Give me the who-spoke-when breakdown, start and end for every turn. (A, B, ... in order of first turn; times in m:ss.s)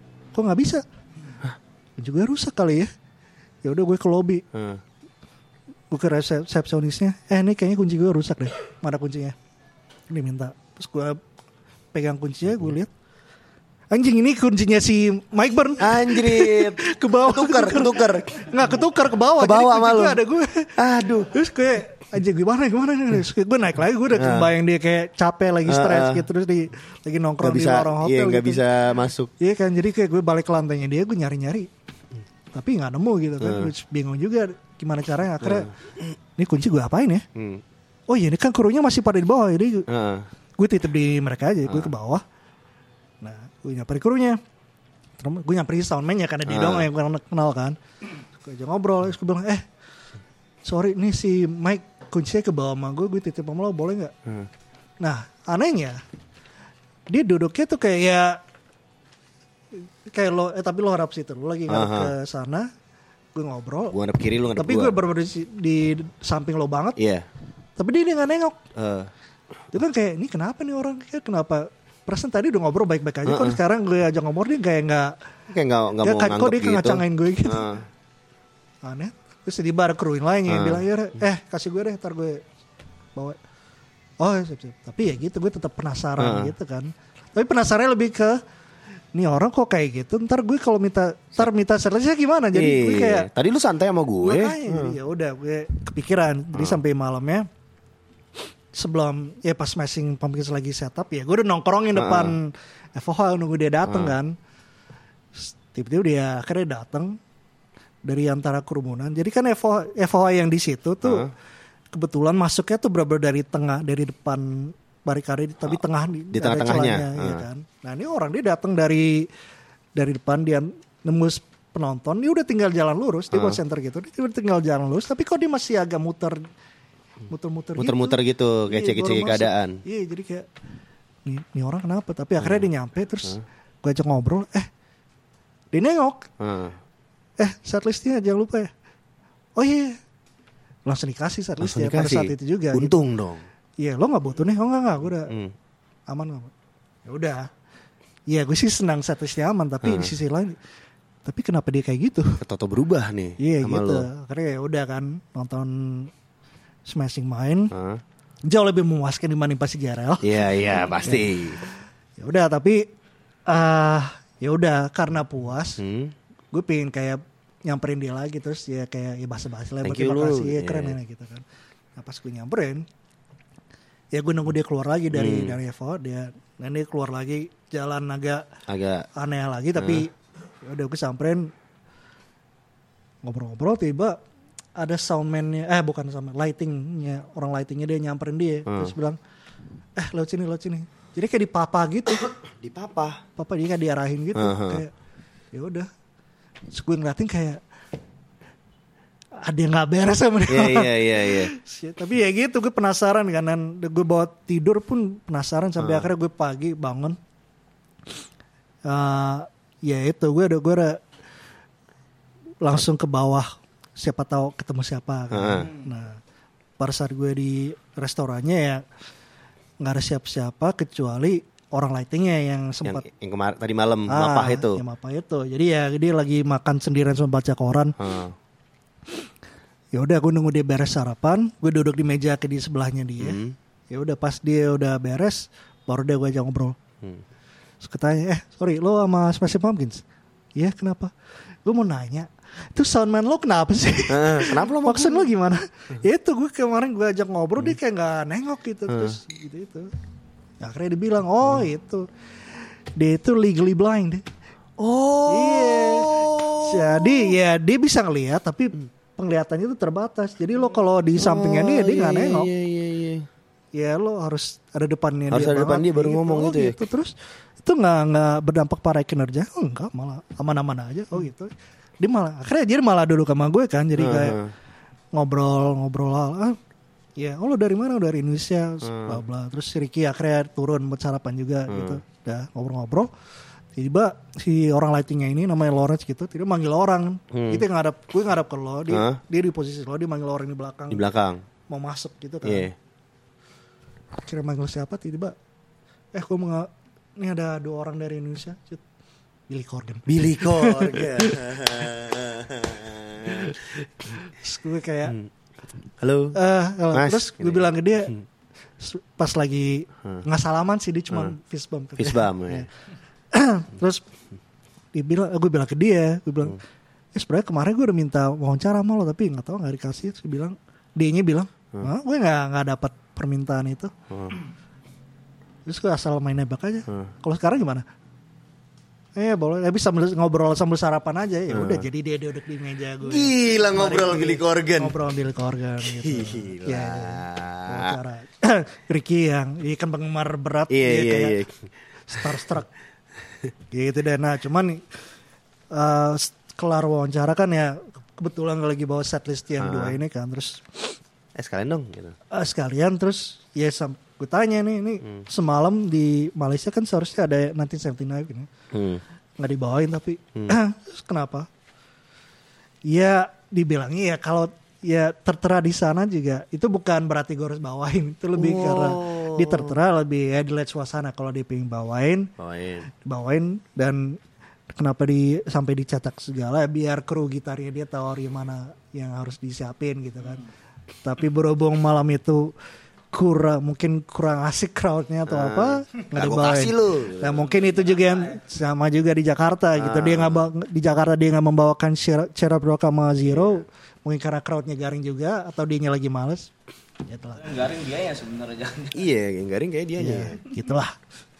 0:00.3-0:00.8 A
0:02.0-0:02.9 A
0:03.6-0:04.4 A
0:04.5-0:04.8 B
0:05.9-0:09.4 A
0:10.1-0:11.2 A
0:11.9-0:12.9 A
0:13.9-0:20.7 A
0:15.8-0:18.7 B
0:19.4-0:20.2 B
0:20.8-0:21.3 B
0:21.3-0:28.6 A
0:24.1-0:24.5 B
0:25.6-0:26.2 B
0:27.4-0:29.3 B
0:29.4-0:31.7 A
0:32.5-0:35.7 A
0:33.4-0:33.7 B
0:35.4-0:35.7 B
0:36.4-0:37.2 A
0:37.3-0:37.6 B
0:38.1-0:39.9 A
0:39.9-0:40.3 B
0:40.6-0:42.2 A
0:43.2-0:44.4 A
0:45.2-0:47.8 A
0:46.5-0:46.9 B
0:48.4-0:49.6 A
0:50.6-0:54.1 A
0:55.0-0:56.0 A
0:57.1-0:58.4 A
0:59.7-1:02.7 A
1:01.7-1:02.1 B
1:03.3-1:03.9 A
1:03.9-1:05.0 B
1:04.6-1:07.0 A
1:07.0-1:07.2 B
1:07.8-1:08.6 A
1:08.7-1:09.1 B
1:09.7-1:15.2 A
1:13.2-1:13.6 B
1:15.5-1:17.8 B
1:16.0-1:17.6 A
1:18.8-1:22.4 A
1:20.5-1:20.8 B
1:24.2-1:28.4 A
1:26.2-1:26.5 B
1:29.1-1:33.3 A
1:32.5-1:34.9 B
1:34.2-1:37.5 A
1:38.7-1:44.3 A
1:41.9-1:42.3 B
1:43.8-1:44.1 B
1:45.4-1:47.2 A
1:48.0-1:51.3 A
1:51.0-1:51.3 B
1:51.9-1:59.3 A
1:56.3-1:57.4 B
2:00.0-2:06.5 A
2:03.3-2:03.6 B
2:07.3-2:08.2 A
2:07.8-2:09.8 B
2:08.7-2:10.5 A
2:11.2-2:14.7 A
2:12.4-2:12.7 B
2:15.7-2:16.3 A
2:16.4-2:16.8 B
2:17.4-2:18.7 A
2:19.6-2:20.0 A
2:20.8-2:23.0 A
2:21.6-2:23.4 B
2:23.8-2:25.3 A
2:25.3-2:25.5 B
2:26.1-2:26.5 A
2:27.0-2:27.5 A
2:28.3-2:30.6 A
2:29.8-2:30.1 B
2:31.2-2:32.4 A
2:32.4-2:34.1 B
2:33.4-2:36.1 A
2:36.8-2:37.7 A
2:37.7-2:38.0 B
2:38.4-2:40.3 A
2:40.2-2:41.6 B
2:41.0-2:41.4 A
2:42.2-2:42.9 A
2:43.5-2:45.8 A
2:45.8-2:46.1 B
2:46.5-2:51.4 A
2:49.8-2:51.0 B
2:52.0-2:52.8 A
2:54.1-2:58.4 A
2:55.1-2:55.6 B
2:58.7-2:59.0 B
2:59.2-3:01.5 A
2:59.8-3:00.0 B
3:03.2-3:04.2 A
3:04.8-3:09.2 A
3:08.7-3:08.9 B
3:10.0-3:12.3 A
3:12.5-3:13.2 B
3:13.4-3:14.9 A
3:14.3-3:14.8 B
3:15.5-3:15.9 A
3:16.7-3:17.6 A
3:19.4-3:27.2 A
3:20.5-3:21.5 B
3:25.8-3:26.1 B
3:28.8-3:31.0 A
3:32.6-3:36.2 A
3:35.3-3:35.7 B
3:36.8-3:38.8 A
3:39.8-3:43.0 A
3:42.8-3:44.8 B
3:44.1-3:48.0 A
3:48.0-3:48.4 B
3:49.9-3:56.8 A
3:53.2-3:53.6 B
3:57.8-4:00.0 A
4:00.6-4:01.1 A
4:01.6-4:09.9 A
4:04.1-4:05.3 B
4:08.9-4:09.2 B
4:10.6-4:12.0 A
4:13.0-4:14.2 A
4:14.8-4:17.3 B
4:15.3-4:22.5 A
4:21.2-4:23.3 B
4:23.7-4:34.4 A
4:25.3-4:26.8 B
4:34.0-4:34.5 B
4:35.1-4:36.6 A
4:37.2-4:43.1 A
4:38.8-4:39.2 B
4:41.7-4:42.0 B
4:43.8-4:51.0 A
4:47.3-4:47.6 B
4:48.9-4:49.2 B
4:50.9-4:51.4 B
4:51.7-4:52.7 A
4:52.4-4:52.7 B
4:54.2-4:55.3 A
4:56.1-4:58.8 A
4:59.5-5:01.5 A
5:00.0-5:04.2 B
5:04.2-5:05.2 A
5:06.0-5:06.3 B
5:06.3-5:08.1 A
5:06.9-5:08.2 B
5:08.8-5:12.7 A
5:12.0-5:12.7 B
5:13.3-5:14.0 A
5:14.9-5:16.6 A
5:17.1-5:23.9 A
5:24.1-5:24.4 B
5:25.6-5:27.8 A
5:29.2-5:41.4 A
5:31.5-5:31.8 B
5:33.0-5:34.9 B
5:35.8-5:38.0 B
5:40.7-5:41.7 B
5:42.1-5:42.7 A
5:43.7-5:44.8 A
5:45.7-5:51.0 A
5:49.6-5:50.0 B
5:51.3-5:52.2 B
5:52.3-5:58.5 A
5:58.7-5:59.0 B
5:59.4-6:01.5 A
6:02.9-6:12.3 A
6:08.4-6:09.8 B
6:12.4-6:12.9 B
6:13.0-6:14.2 A
6:14.7-6:20.4 A
6:21.0-6:22.5 A
6:23.1-6:36.5 A
6:25.3-6:27.4 B
6:27.4-6:28.4 C
6:29.8-6:30.4 B
6:33.2-6:33.6 B
6:37.0-6:37.6 A
6:37.4-6:39.1 C
6:38.9-6:40.4 B
6:40.0-6:40.9 A